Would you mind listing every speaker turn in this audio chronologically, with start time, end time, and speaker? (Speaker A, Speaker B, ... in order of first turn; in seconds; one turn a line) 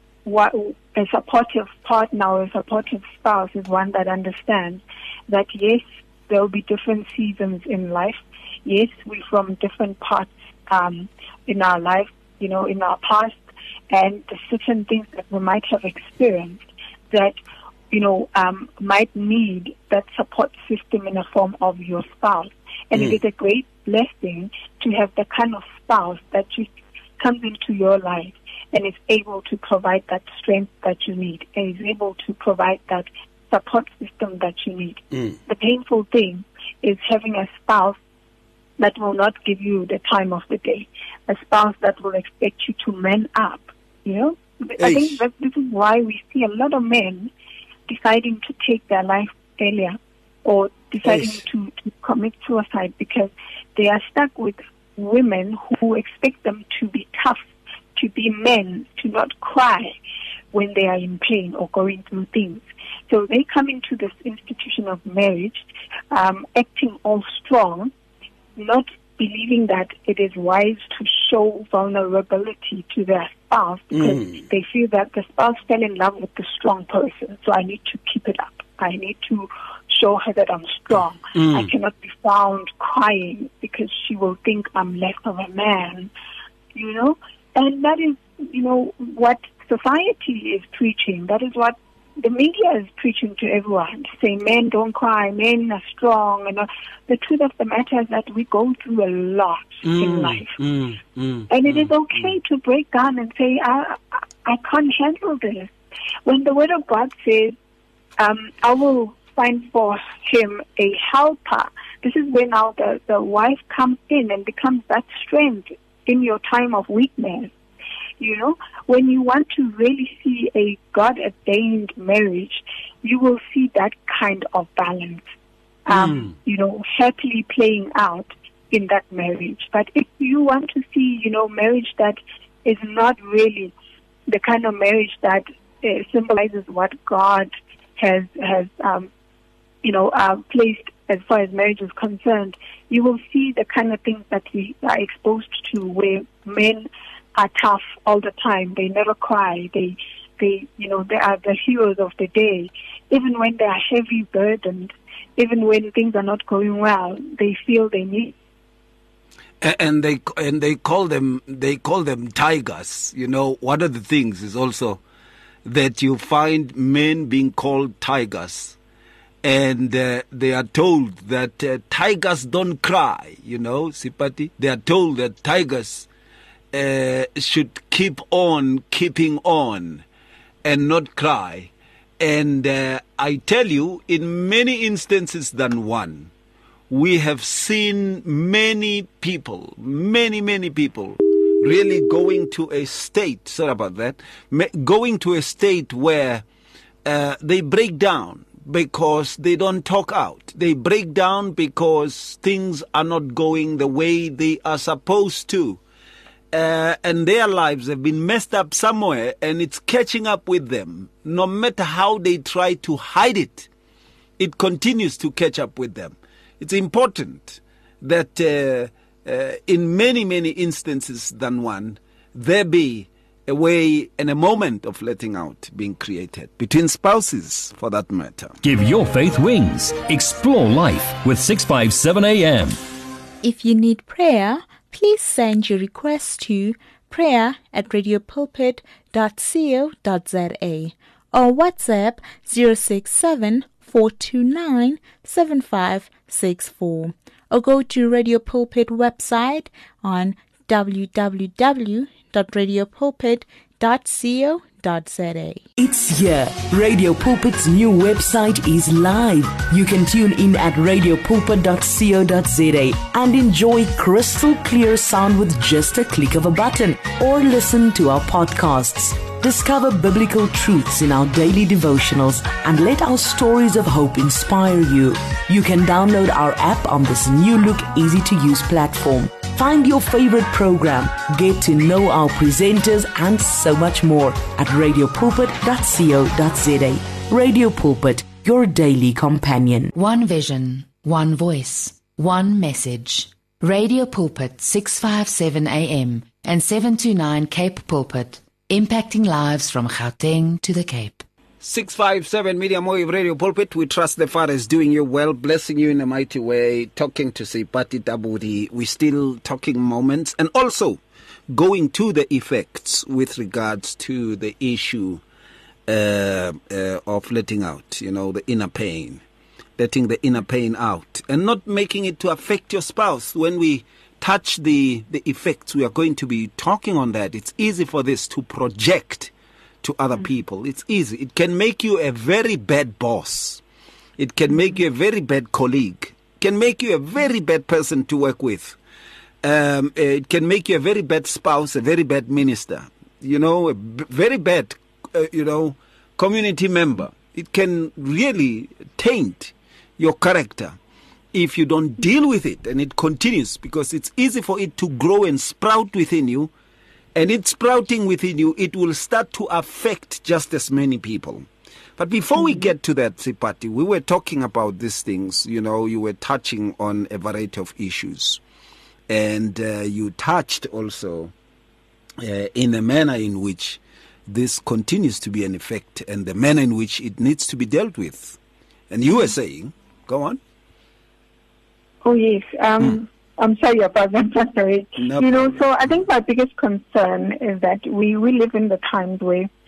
Speaker A: 0.2-13.4
Speaker A: 13.9-17.4
Speaker A: 17.9-38.0
Speaker A: 38.8-47.3
Speaker B: 44.8-45.2
Speaker A: 47.9-57.4
Speaker B: 51.0-51.4
Speaker A: 58.0-60.0
Speaker A: 60.5-67.9
Speaker A: 68.6-86.1
Speaker B: 73.9-74.4
Speaker B: 81.3-81.7
Speaker A: 86.8-100.5
Speaker B: 99.8-102.3
Speaker A: 101.5-105.7
Speaker A: 106.3-107.5
Speaker A: 108.2-117.5
Speaker A: 118.2-125.3
Speaker A: 125.9-133.7
Speaker B: 125.9-126.3
Speaker A: 134.3-139.1
Speaker A: 139.8-158.3
Speaker B: 159.6-165.0
Speaker B: 165.7-168.8
Speaker B: 169.4-176.1
Speaker B: 176.7-180.1
Speaker B: 180.6-186.3
Speaker B: 186.9-196.4
Speaker B: 197.0-205.8
Speaker B: 206.5-213.7
Speaker B: 214.4-228.6
Speaker C: 228.6-232.8
Speaker D: 233.4-255.6
Speaker E: 255.8-289.9
Speaker F: 289.9-301.2
Speaker B: 301.6-311.0
Speaker B: 311.5-315.2
Speaker B: 315.9-319.2
Speaker B: 319.8-333.6
Speaker B: 334.2-338.8
Speaker B: 339.4-350.8
Speaker B: 351.3-356.5
Speaker B: 357.1-368.4
Speaker B: 369.1-371.3
Speaker B: 372.2-378.4
Speaker B: 378.9-380.4
Speaker A: 382.0-389.5
Speaker B: 385.0-386.1